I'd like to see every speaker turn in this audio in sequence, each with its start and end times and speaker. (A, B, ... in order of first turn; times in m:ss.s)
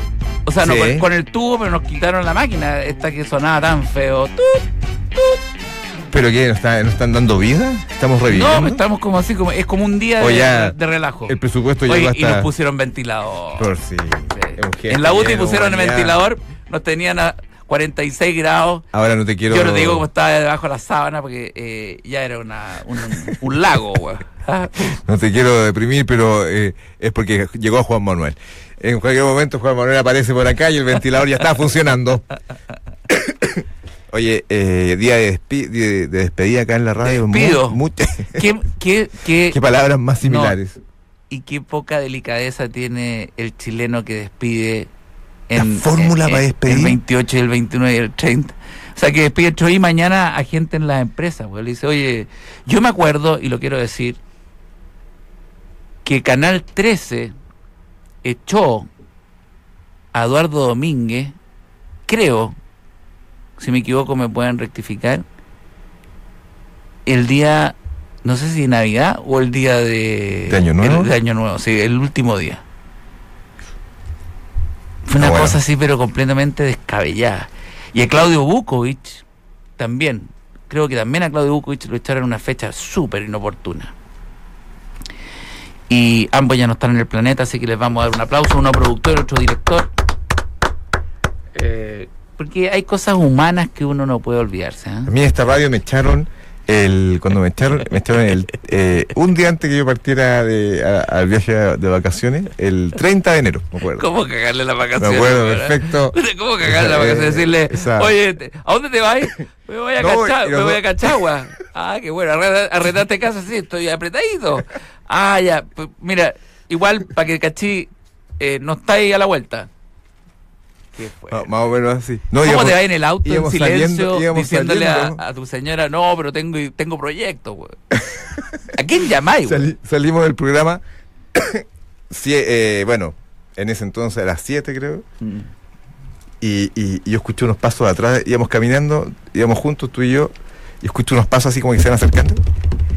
0:00.4-0:05.4 A
0:00.6-0:01.1 B
0:06.1-0:08.8 B
0:08.3-0:13.7 A
0:10.2-0:10.8 B
0:11.3-0:12.5 B
0:13.6-0:16.2 B
0:14.3-0:18.8 A
0:18.9-0:20.1 B
0:19.5-0:25.0 A
0:24.9-0:32.2 B
0:33.1-0:38.5 B
0:37.0-0:37.8 A
0:38.3-0:39.6 A
0:39.5-0:40.8 B
0:40.2-0:40.6 A
0:41.3-0:44.9 A
0:45.5-0:54.2 A
0:45.6-0:47.0 B
0:56.0-0:57.3 A
0:58.2-0:58.9 A
1:00.1-1:01.3 A
1:02.1-1:02.6 A
1:03.6-1:05.2 A
1:07.0-1:12.6 A
1:10.5-1:11.1 B
1:15.1-1:19.2 A
1:15.2-1:15.6 B
1:19.8-1:23.9 A
1:25.9-1:29.9 A
1:31.5-1:35.1 A
1:35.1-1:44.0 B
1:43.9-1:59.7 A
1:45.0-1:48.1 B
1:50.0-1:51.2 B
2:00.9-2:01.5 A
2:01.3-2:05.2 B
2:02.4-2:07.8 A
2:07.9-2:08.7 B
2:08.7-2:09.7 A
2:09.4-2:10.8 B
2:11.3-2:15.0 B
2:16.4-2:22.4 B